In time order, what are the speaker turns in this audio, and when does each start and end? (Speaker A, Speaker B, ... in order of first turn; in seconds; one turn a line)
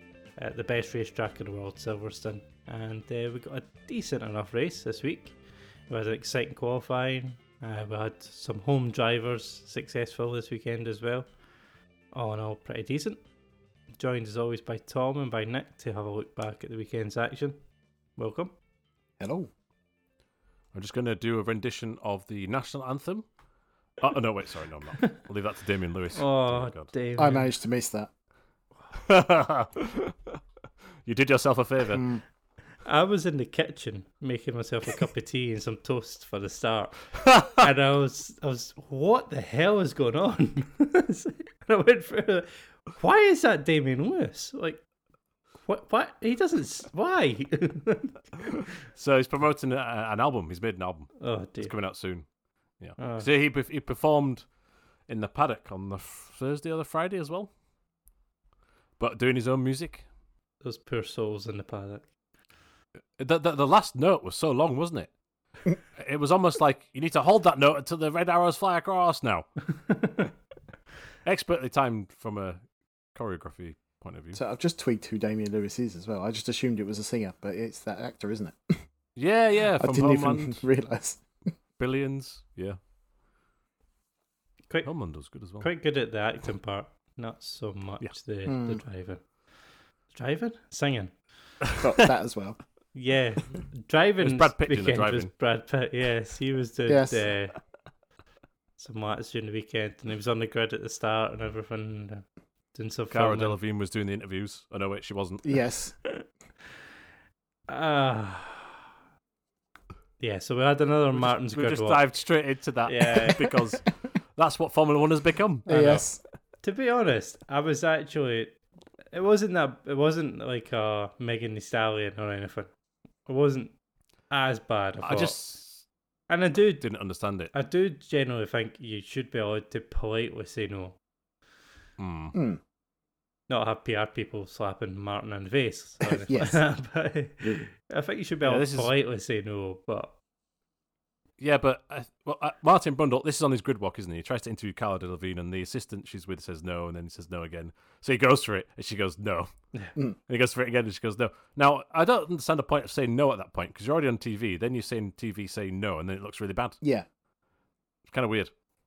Speaker A: 0.4-5.3
Speaker A: 5.9-11.3
Speaker A: 12.1-13.2
Speaker A: 14.0-17.6
Speaker A: 18.2-18.5
Speaker B: 19.2-19.5
Speaker C: 20.7-23.2
Speaker C: 24.0-26.9
Speaker A: 26.1-27.5
Speaker B: 27.2-28.1
Speaker C: 28.9-30.4
Speaker C: 31.0-32.0
Speaker B: 31.9-32.2
Speaker A: 32.8-44.8
Speaker C: 37.2-37.6
Speaker A: 45.6-48.6
Speaker C: 48.9-52.2
Speaker A: 51.2-51.7
Speaker C: 52.8-54.5
Speaker A: 53.0-53.3
Speaker C: 55.1-57.5
Speaker C: 59.0-60.0
Speaker A: 60.6-62.1
Speaker C: 63.2-65.1
Speaker C: 65.9-69.5
Speaker A: 69.8-70.3
Speaker C: 71.2-72.6
Speaker C: 73.1-74.4
Speaker B: 74.3-78.8
Speaker C: 79.2-80.6
Speaker B: 79.8-81.2
Speaker C: 81.8-82.8
Speaker C: 84.8-85.7
Speaker A: 85.6-89.2
Speaker B: 88.5-88.8
Speaker A: 90.1-91.1
Speaker C: 91.7-92.1
Speaker B: 91.8-92.6
Speaker A: 92.9-97.5
Speaker C: 94.2-95.3
Speaker B: 96.9-97.3
Speaker A: 98.8-103.6
Speaker C: 103.1-105.6
Speaker B: 105.4-105.9
Speaker A: 107.7-108.8
Speaker A: 110.2-112.0
Speaker C: 111.1-115.7
Speaker A: 112.8-113.8
Speaker A: 115.7-116.0
Speaker B: 115.7-116.2
Speaker A: 116.6-118.6
Speaker A: 119.1-122.7
Speaker A: 123.2-123.7
Speaker A: 124.3-125.4
Speaker C: 125.0-125.8
Speaker A: 126.3-126.8
Speaker C: 126.8-127.5
Speaker A: 127.5-131.0
Speaker C: 132.0-132.3
Speaker B: 132.3-132.6
Speaker A: 133.5-140.1
Speaker B: 136.0-136.6
Speaker C: 138.4-138.9
Speaker C: 141.4-149.5
Speaker C: 150.3-156.8
Speaker B: 156.8-157.1
Speaker C: 158.1-158.5